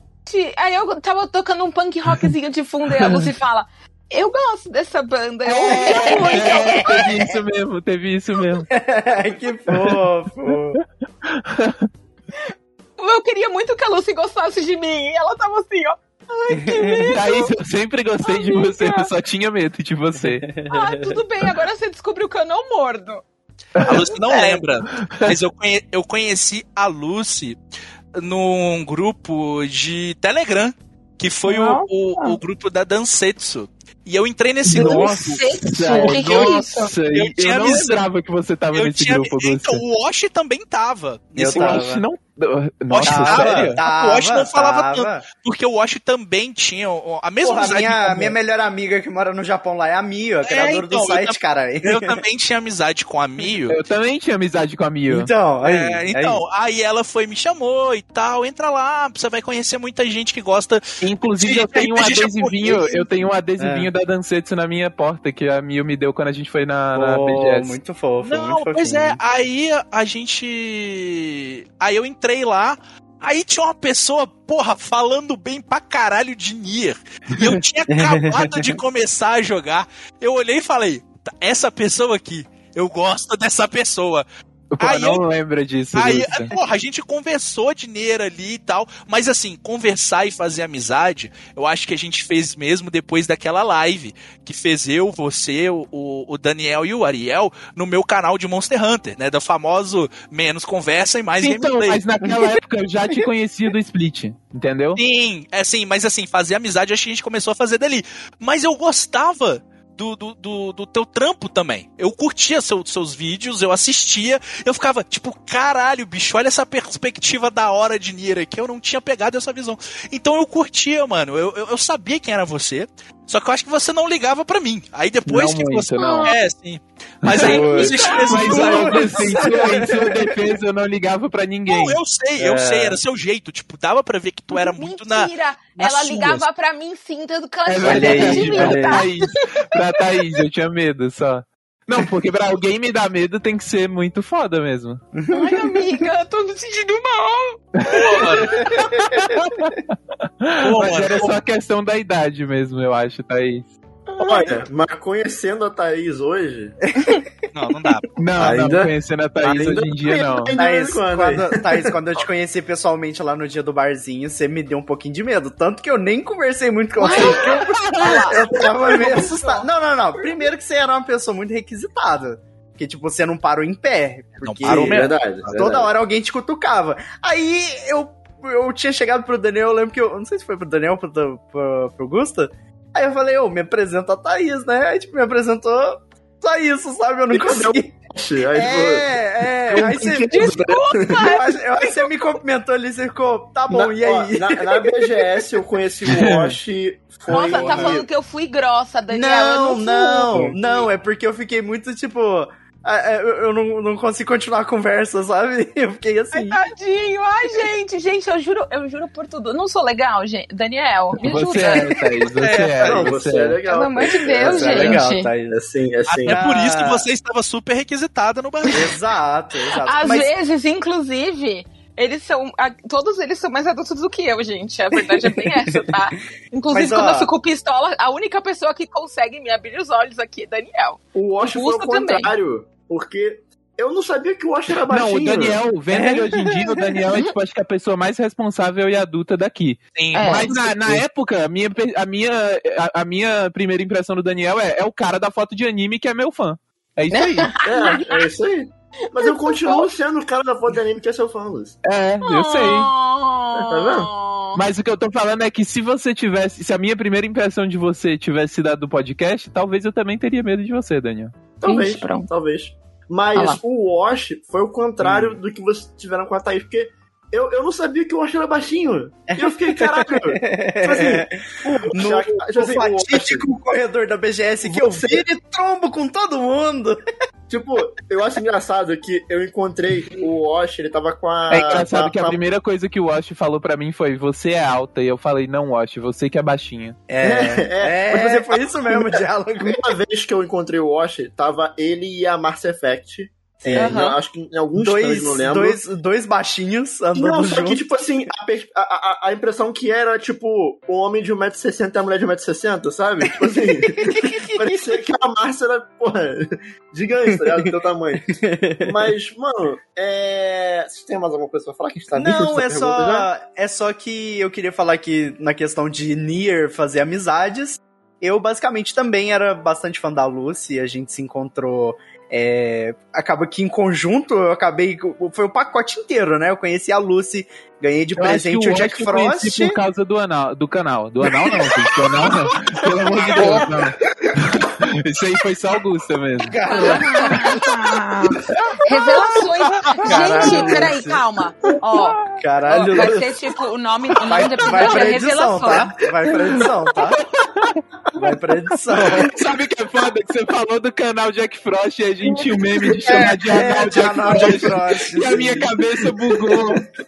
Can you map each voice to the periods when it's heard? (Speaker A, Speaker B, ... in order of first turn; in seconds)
Speaker A: 0.3-7.1, 13.0-17.5, 18.2-19.1, 20.6-23.2, 31.5-32.4, 34.7-36.9, 125.9-126.3, 127.9-128.7, 134.5-140.2, 145.3-148.8, 154.2-154.5, 167.0-168.4, 190.3-192.0, 197.3-200.5, 206.3-212.2, 213.7-215.3, 219.8-232.3, 240.1-240.5, 247.1-248.3, 249.2-249.8, 252.2-254.6, 261.6-262.3, 263.3-263.6, 293.8-294.2, 333.3-333.7, 336.7-346.6
Speaker B: 5.4-8.7, 9.7-11.9, 16.8-20.6, 23.8-24.0, 24.9-25.3, 34.6-39.8, 41.5-43.8, 53.7-55.3, 61.0-67.8, 84.7-86.5, 101.4-105.0, 125.2-126.3, 127.2-132.0, 137.7-145.0, 147.8-153.7, 158.2-160.6, 196.0-196.6, 211.2-213.6, 234.9-247.6, 251.8-252.9, 254.5-261.3, 281.5-287.0, 328.1-336.8, 347.2-347.8, 349.1-356.9
Speaker C: 5.7-7.2, 8.7-10.8, 41.3-42.0, 43.0-45.2, 47.4-52.2, 55.1-56.4, 63.6-63.9, 66.9-69.2, 127.3-130.4, 132.4-133.0, 137.8-139.1, 145.1-146.0, 148.8-149.1, 156.9-157.2, 160.5-187.9, 188.5-195.4, 197.3-198.0, 199.1-206.6, 214.4-215.5, 216.2-217.1, 218.7-220.3, 226.7-227.3, 265.0-265.4, 269.3-277.0, 287.1-289.9, 293.6-294.0, 294.8-297.8, 303.5-304.8, 308.3-308.9, 312.1-329.8, 333.1-333.7, 336.4-337.8, 339.9-341.8, 342.3-343.3, 344.2-347.2, 348.1-349.4, 352.9-356.0
Speaker D: 23.8-27.6, 28.1-38.0, 38.7-41.8, 42.9-48.4, 50.4-53.8, 55.6-63.0, 68.2-84.2, 84.8-85.2, 85.9-102.0, 105.0-129.5, 131.7-136.4, 148.0-148.6, 150.6-151.4, 157.5-158.1, 174.4-175.5, 212.4-212.7, 216.1-218.8, 239.9-240.7, 339.8-340.6
Speaker E: 154.2-156.8, 158.3-161.9, 167.1-170.5, 174.6-175.9, 187.3-191.3, 193.7-198.1, 200.3-200.6, 212.5-216.4, 231.1-235.6, 247.6-251.8, 253.6-254.1, 261.6-273.5, 274.6-275.2, 277.5-282.4, 287.2-295.8, 297.1-313.3, 354.3-354.6